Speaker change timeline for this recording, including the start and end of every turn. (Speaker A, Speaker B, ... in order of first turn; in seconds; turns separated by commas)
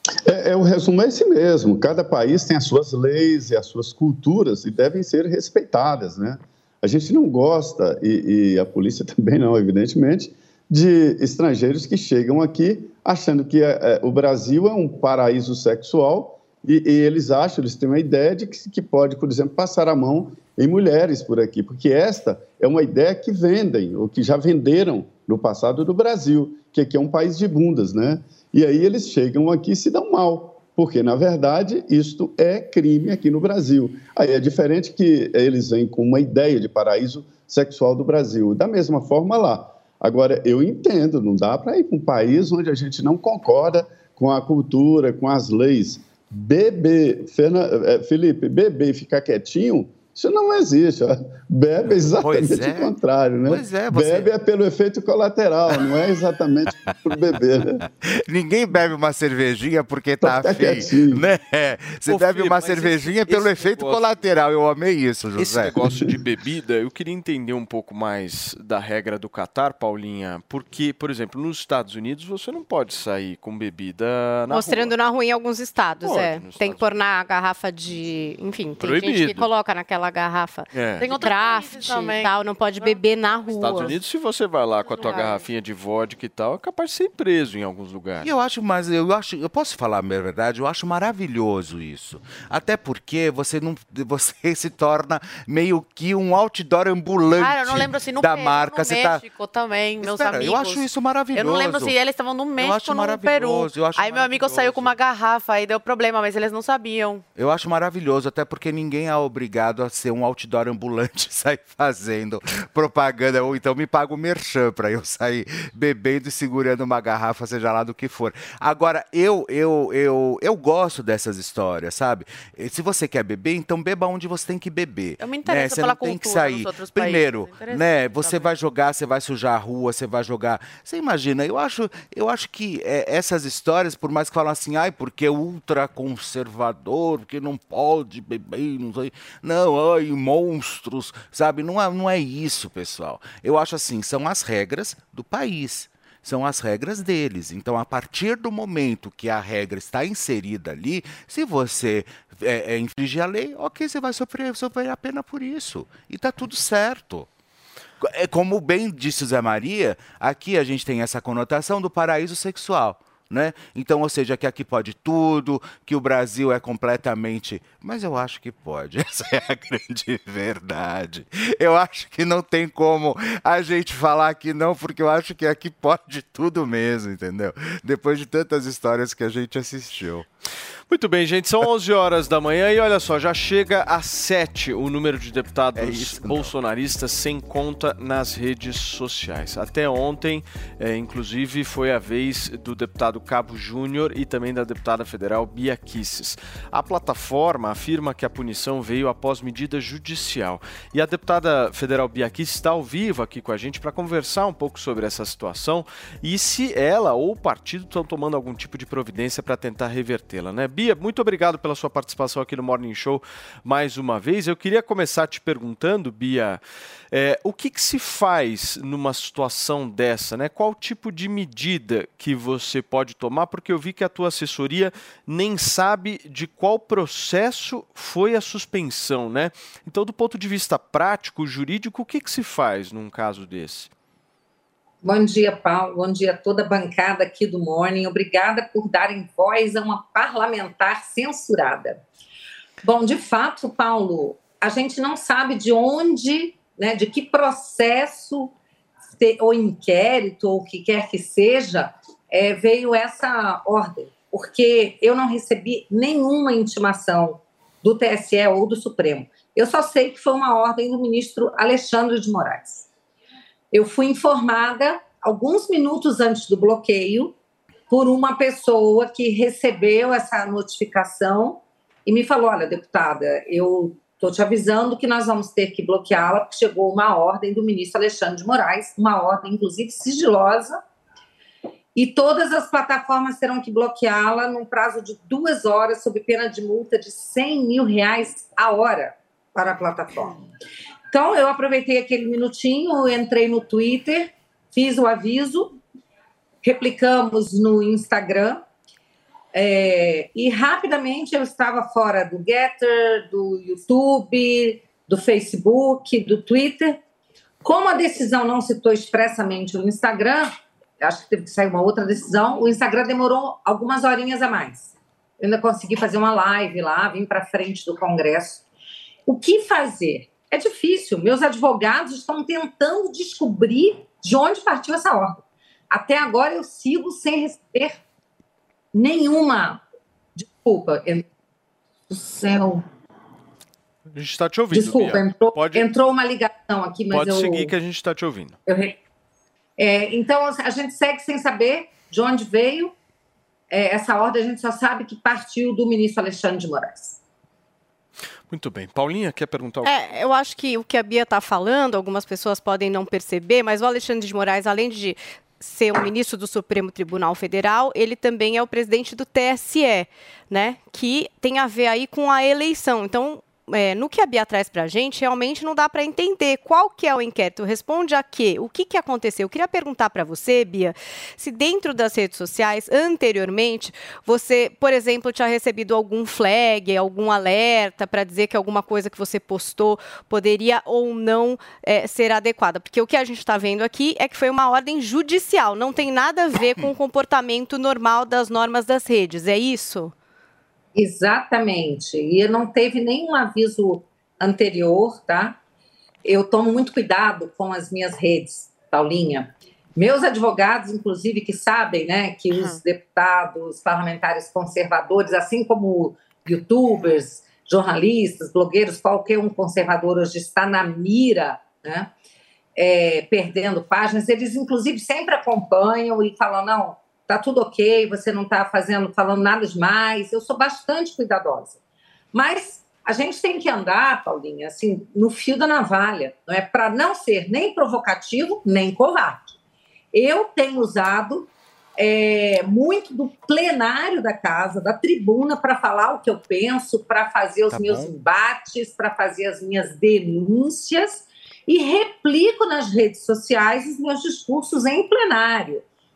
Speaker A: 0.2-57.8, Speaker B: 52.0-52.9, Speaker B: 53.5-54.3, Speaker B: 58.0-65.8, Speaker A: 60.2-61.2, Speaker C: 62.1-64.1, Speaker C: 65.4-75.0, Speaker D: 74.5-83.9, Speaker C: 76.0-76.9, Speaker C: 78.8-79.5, Speaker C: 80.7-81.2, Speaker E: 81.0-83.0, Speaker C: 83.6-88.3, Speaker E: 84.8-85.5, Speaker B: 88.2-99.2, Speaker E: 97.4-107.2, Speaker B: 100.0-101.9, Speaker B: 102.6-104.9, Speaker B: 107.4-157.3, Speaker E: 125.2-128.5, Speaker B: 158.0-180.2, Speaker C: 180.9-233.9, Speaker B: 185.7-186.5, Speaker F: 235.0-242.0, Speaker F: 242.8-248.5, Speaker F: 249.2-262.9, Speaker F: 263.7-267.3, Speaker F: 267.9-280.8, Speaker F: 281.9-290.4, Speaker F: 291.1-295.8, Speaker F: 296.6-298.6, Speaker F: 299.5-307.0, Speaker F: 307.6-318.6, Speaker F: 319.3-328.0, Speaker F: 328.9-329.8, Speaker F: 330.4-331.2, Speaker F: 332.1-332.8, Speaker C: 334.1-335.9, Speaker F: 334.7-337.7, Speaker C: 337.1-338.5, Speaker F: 338.7-339.0, Speaker F: 339.8-342.9, Speaker F: 343.7-347.2, Speaker C: 348.5-349.9, Speaker D: 349.8-390.1, Speaker F: 390.9-395.6, Speaker F: 396.2-412.1, Speaker F: 412.8-421.8, Speaker F: 422.3-429.5, Speaker F: 430.1-445.8, Speaker B: 437.7-438.1